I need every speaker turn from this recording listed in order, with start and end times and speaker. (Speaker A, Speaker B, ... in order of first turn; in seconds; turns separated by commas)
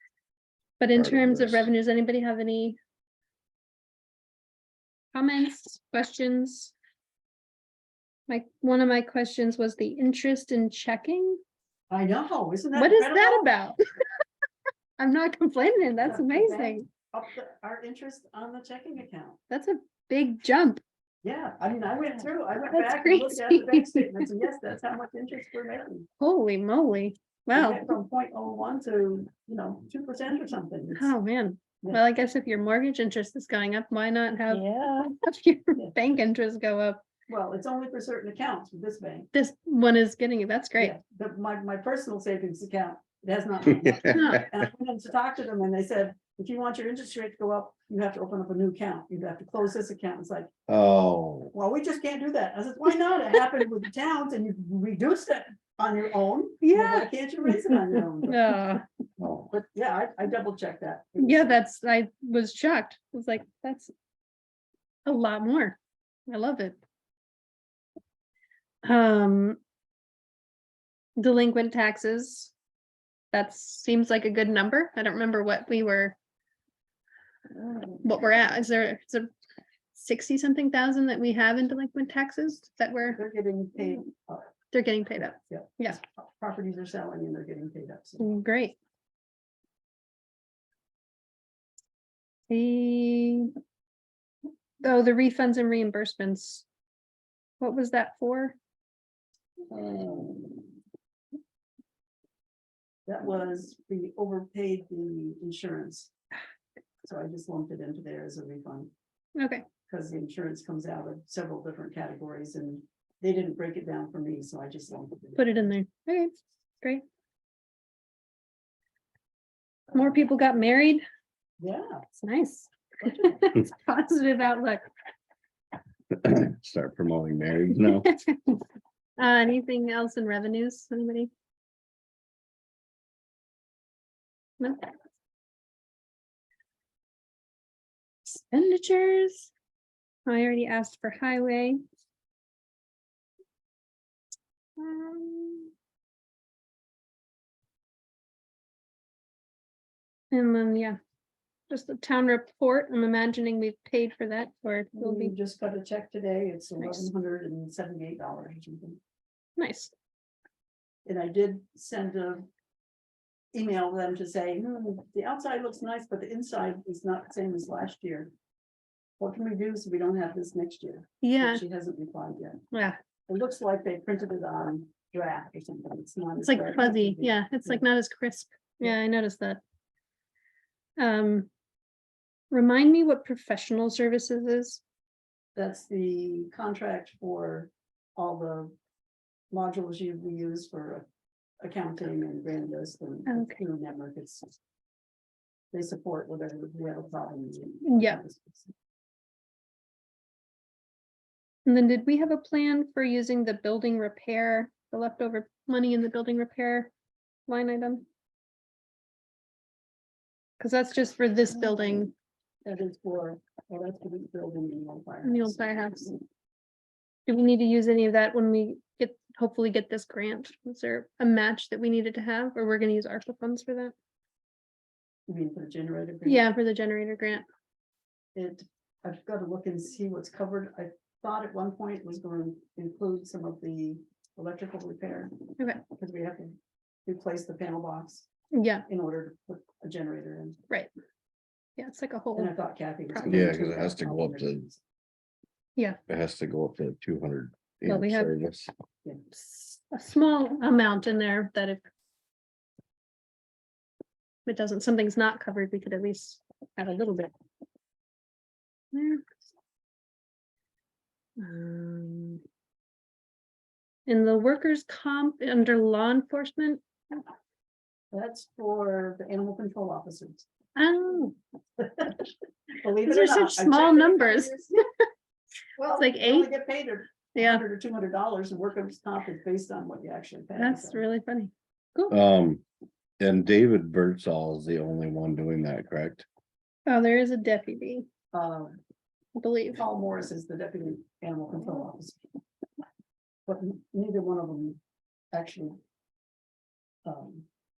Speaker A: 0.8-2.8, Speaker B: 0.9-1.7, Speaker A: 5.1-6.7, Speaker A: 8.3-11.4, Speaker C: 11.9-13.5, Speaker A: 12.8-13.8, Speaker A: 15.0-16.9, Speaker C: 16.0-19.4, Speaker A: 19.5-20.8, Speaker C: 21.2-26.1, Speaker A: 22.7-24.3, Speaker A: 26.2-27.9, Speaker C: 27.5-31.1, Speaker A: 30.9-37.0, Speaker C: 37.3-39.3, Speaker A: 39.3-40.9, Speaker C: 40.8-50.5, Speaker B: 43.8-44.2, Speaker A: 44.1-44.4, Speaker B: 50.7-51.5, Speaker C: 51.5-58.5, Speaker A: 56.6-58.8, Speaker B: 59.2-59.5, Speaker C: 59.5-61.6, Speaker A: 61.2-63.9, Speaker A: 65.0-66.8, Speaker A: 68.8-69.6, Speaker A: 71.2-72.5, Speaker A: 73.3-76.2, Speaker C: 77.6-78.0, Speaker A: 78.0-79.3, Speaker A: 79.9-83.2, Speaker C: 83.1-84.5, Speaker A: 84.7-86.0, Speaker C: 85.5-88.2, Speaker A: 88.2-88.8, Speaker A: 92.5-93.5, Speaker A: 94.8-96.6, Speaker A: 97.6-98.5, Speaker C: 99.7-100.7, Speaker C: 103.0-106.1, Speaker C: 107.0-108.9, Speaker A: 109.3-109.7, Speaker C: 109.9-115.7, Speaker A: 115.3-117.0, Speaker A: 119.9-121.0, Speaker C: 121.6-122.0, Speaker A: 122.2-124.8, Speaker C: 123.0-123.4, Speaker B: 126.1-128.1, Speaker A: 127.8-128.6, Speaker A: 129.2-131.3, Speaker A: 134.6-134.9, Speaker A: 138.3-139.5, Speaker A: 140.2-141.8, Speaker A: 144.8-145.7, Speaker A: 150.3-151.0, Speaker A: 151.7-155.3, Speaker C: 155.0-159.0, Speaker A: 156.8-157.1, Speaker A: 159.6-159.9, Speaker C: 161.1-162.5, Speaker C: 163.5-168.3, Speaker C: 169.2-172.6, Speaker A: 171.2-171.6, Speaker A: 172.7-173.0, Speaker C: 173.3-177.8, Speaker A: 176.4-179.6, Speaker A: 181.0-181.5, Speaker A: 182.5-184.8, Speaker C: 185.6-188.7, Speaker C: 189.5-191.1, Speaker C: 191.6-194.5, Speaker A: 193.3-193.6, Speaker C: 195.7-198.7, Speaker A: 197.8-198.2, Speaker A: 201.7-206.9, Speaker A: 207.5-208.1, Speaker A: 210.6-212.1, Speaker C: 212.7-216.2, Speaker A: 215.2-216.1, Speaker A: 217.3-223.9, Speaker C: 225.3-226.5, Speaker A: 226.2-227.4, Speaker C: 228.3-235.3, Speaker C: 235.9-238.3, Speaker A: 238.5-238.9, Speaker C: 238.9-240.6, Speaker A: 241.8-242.5, Speaker C: 242.4-244.8, Speaker A: 243.1-243.5, Speaker B: 243.3-244.7, Speaker B: 246.1-248.7, Speaker A: 247.8-248.3, Speaker A: 249.3-251.8, Speaker A: 254.5-257.3, Speaker A: 258.9-259.2, Speaker A: 261.4-262.4, Speaker A: 264.1-267.2, Speaker C: 268.1-270.4, Speaker A: 270.8-271.4, Speaker C: 271.8-272.2, Speaker C: 272.8-274.8, Speaker A: 273.0-274.8, Speaker C: 275.8-281.0, Speaker A: 276.0-276.5, Speaker A: 277.4-277.6, Speaker A: 280.6-282.2, Speaker B: 282.1-282.6, Speaker B: 283.2-286.2, Speaker A: 286.9-288.1, Speaker C: 288.3-288.8, Speaker A: 289.4-289.8, Speaker C: 289.8-292.2, Speaker C: 293.4-294.8, Speaker C: 295.3-295.8, Speaker C: 297.1-297.5